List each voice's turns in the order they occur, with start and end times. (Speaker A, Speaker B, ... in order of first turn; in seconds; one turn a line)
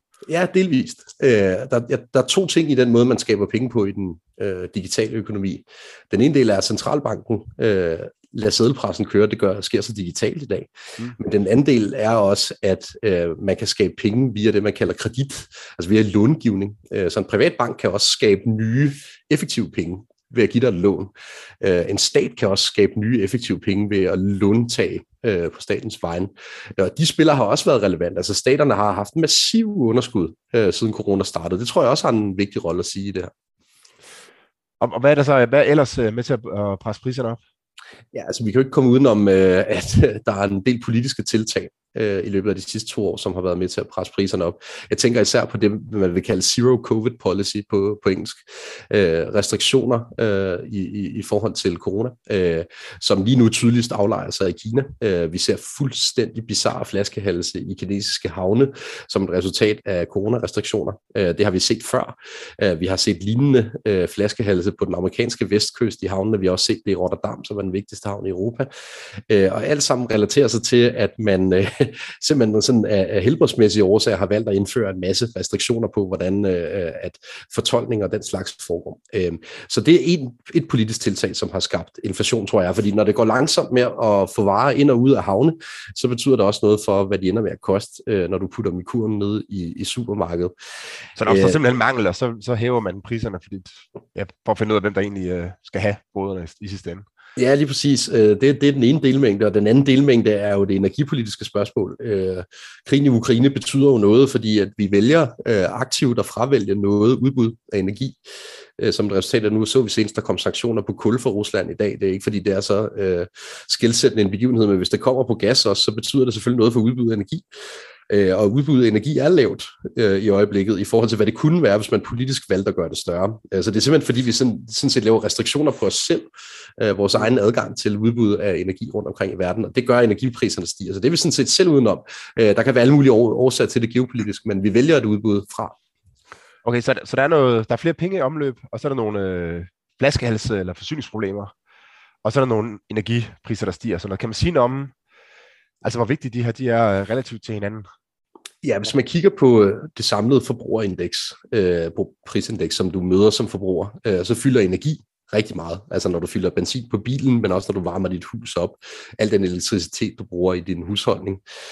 Speaker A: 0.3-33.3
Speaker B: 34.8-37.4
Speaker A: 38.1-68.7
Speaker A: 69.3-90.5
Speaker B: 91.2-97.0
Speaker A: 91.2-91.6
Speaker A: 97.4-108.2
Speaker A: 108.8-117.5
Speaker A: 118.1-135.8
Speaker B: 136.7-141.5
Speaker B: 142.2-144.9
Speaker B: 145.8-147.9
Speaker A: 148.6-161.4